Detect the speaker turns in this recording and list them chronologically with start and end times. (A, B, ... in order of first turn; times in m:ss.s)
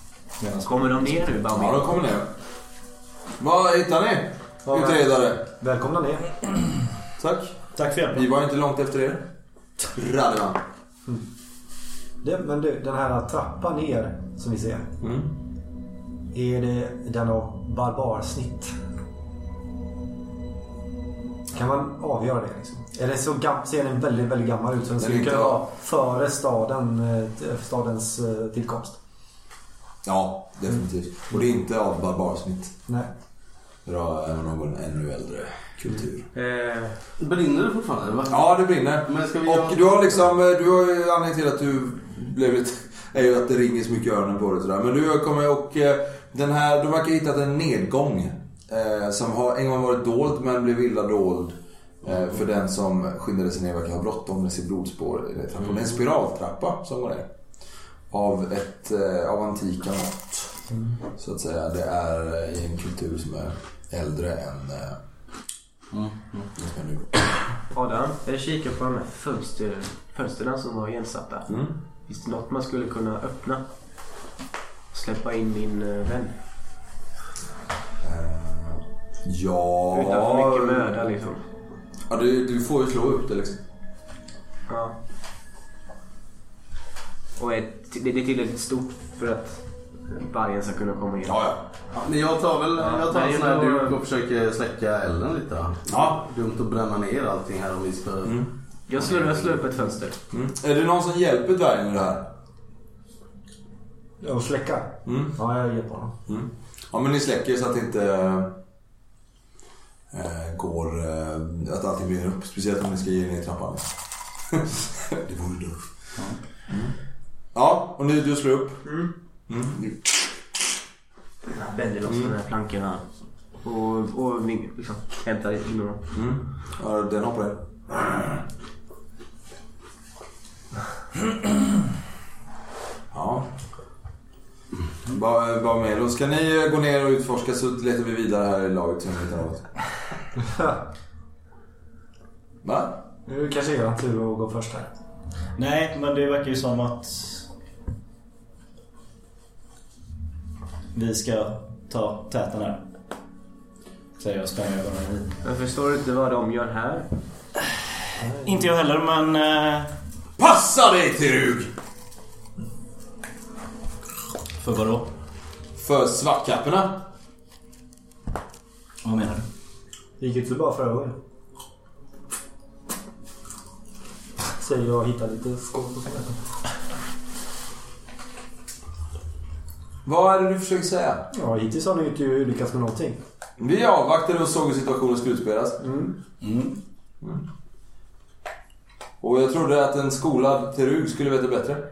0:00.4-0:01.3 A
0:00.6-0:02.0 B
0:01.5-0:02.3 C
0:03.4-0:05.4 C
0:04.6-0:06.2 D
0:07.2-0:09.2 C
0:07.8-0:08.3 A
0:09.9-0:10.6 C
0:12.2-0:14.9 D
0:15.0-0:15.3 C
0:16.3-0:18.7 D
0:21.5-0:29.0 D
0:25.0-0:25.7 C
0:30.0-0:32.8 C
0:33.8-0:36.3 C
0:36.3-0:37.0 B
0:37.2-0:39.9 E
0:38.3-0:57.3 C
0:58.1-1:00.6 C
1:01.2-1:05.0 C
1:05.9-1:06.5 E
1:06.6-1:07.2 C
1:07.7-1:11.5 B
1:11.5-1:11.8 C
1:12.1-1:13.6 B
1:14.9-1:16.3 B
1:18.0-1:21.0 C
1:19.9-1:21.4 B
1:22.1-1:23.6 C
1:24.7-1:25.0 B
1:27.4-1:31.4 B
1:31.2-1:31.6 C
1:32.0-1:38.4 E
1:32.8-1:34.0 B
1:35.9-1:36.2 C
1:38.2-1:38.5 C
1:38.9-1:40.2 B
1:38.9-1:39.8 E
1:40.3-1:42.3 C
1:44.2-1:46.2 D
1:45.1-1:45.4 C
1:46.3-1:48.6 C
1:50.1-1:53.9 C
1:54.5-1:55.8 C
1:56.7-1:56.9 C
1:57.5-1:58.9 C
1:58.8-1:59.1 B
1:59.5-2:00.1 C
2:01.5-2:03.0 B
2:02.1-2:02.4 C
2:03.6-2:06.0 B
2:06.1-2:08.4 C
2:13.1-2:13.5 C
2:15.1-2:19.7 C
2:20.4-2:20.8 D
2:22.6-2:22.9 C
2:23.3-2:24.9 D
2:25.6-2:27.5 A
2:30.9-2:32.8 A
2:34.2-2:35.3 A
2:35.4-2:37.1 B
2:38.2-2:38.5 D
2:38.2-2:39.9 A
2:40.4-2:41.7 C
2:44.6-2:45.1 A
2:45.8-2:47.0 C
2:49.0-2:49.4 A
2:50.2-2:51.2 D
2:54.6-2:56.4 D
3:00.0-3:01.2 C
3:01.3-3:03.2 D
3:03.6-3:05.8 C
3:05.8-3:06.2 D
3:06.4-3:06.8 A
3:09.2-3:11.8 C